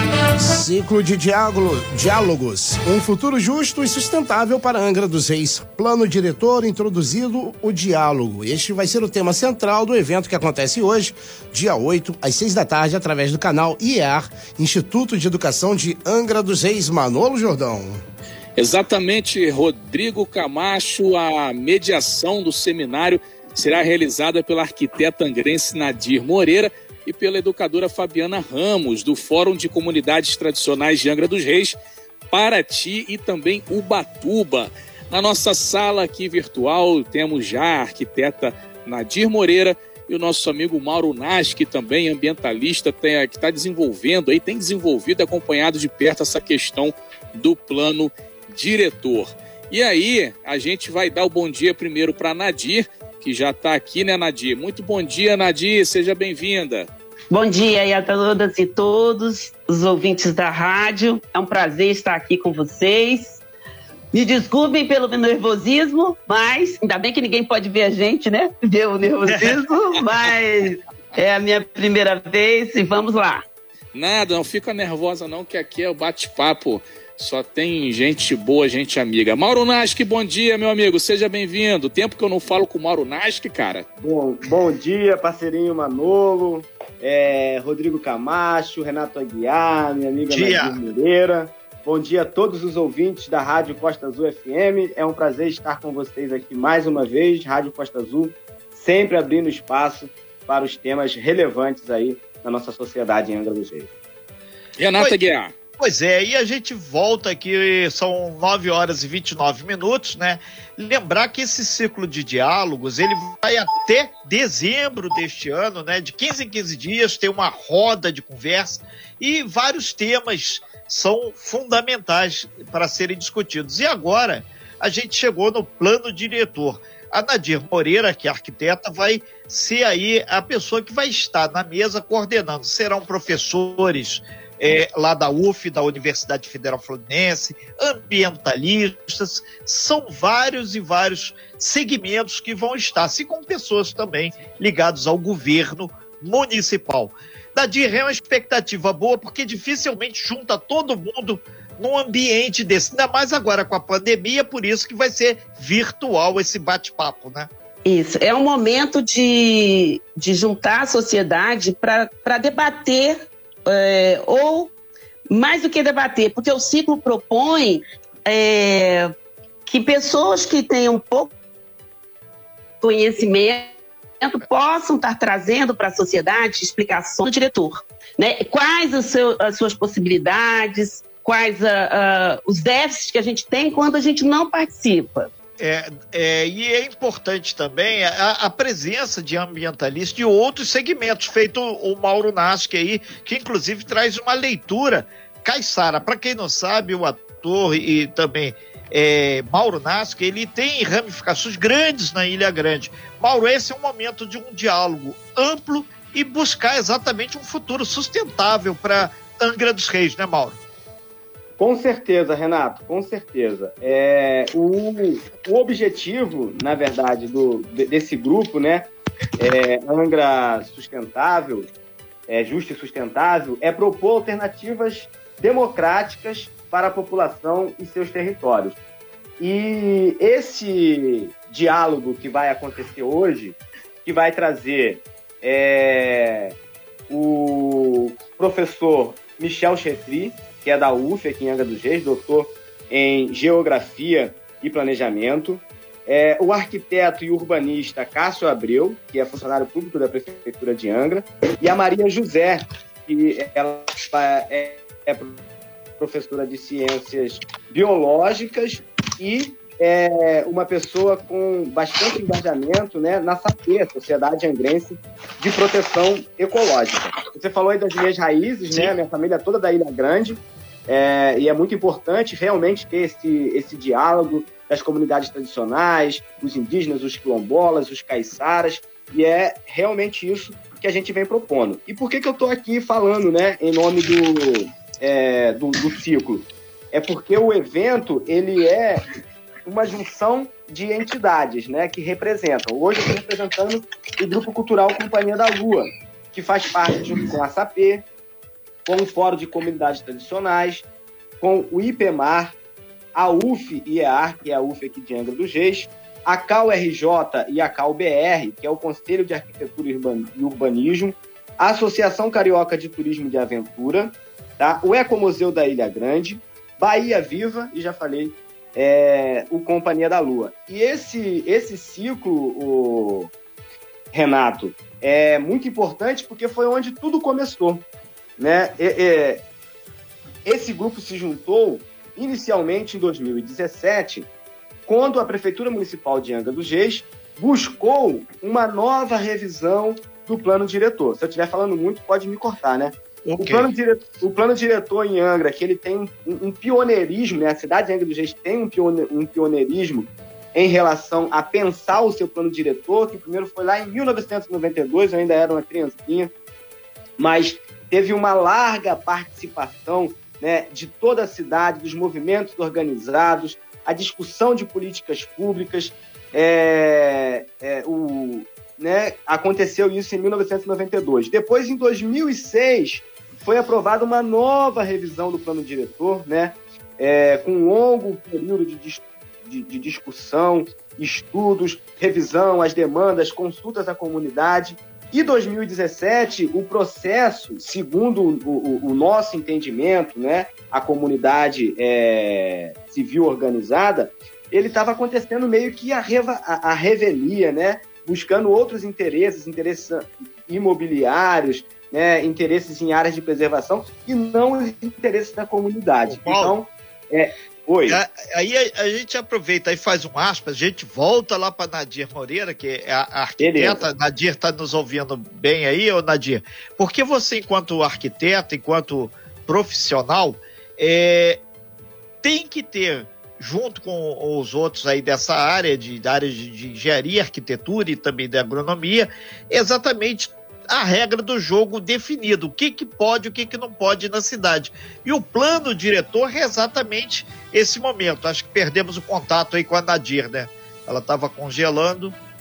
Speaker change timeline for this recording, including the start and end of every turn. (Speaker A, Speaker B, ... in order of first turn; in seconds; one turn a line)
Speaker A: 0.4-18.0
Speaker B: 18.6-31.8
Speaker B: 32.3-56.9
Speaker C: 57.3-63.4
Speaker C: 64.1-73.4
Speaker D: 69.2-69.6
Speaker B: 73.9-83.8
Speaker E: 84.0-103.9
Speaker D: 90.3-90.8
Speaker B: 104.8-105.5
Speaker D: 105.8-157.5
Speaker C: 157.8-164.7
Speaker C: 165.3-169.1
Speaker C: 169.7-171.3
Speaker C: 172.8-185.3
Speaker D: 185.6-210.6
Speaker E: 211.6-221.7
Speaker E: 222.3-228.8
Speaker E: 229.4-236.5
Speaker E: 237.1-255.4
Speaker E: 256.0-289.0
Speaker E: 289.6-298.0
Speaker E: 298.9-300.9
Speaker E: 301.4-302.5
Speaker E: 303.1-323.3
Speaker E: 324.1-327.9
Speaker E: 328.4-329.4
Speaker E: 330.4-334.3
Speaker E: 334.9-356.3
Speaker D: 343.2-343.7
Speaker E: 357.2-408.0
Speaker D: 406.1-406.6
Speaker D: 407.9-421.4
Speaker E: 413.4-413.9
Speaker D: 422.2-442.1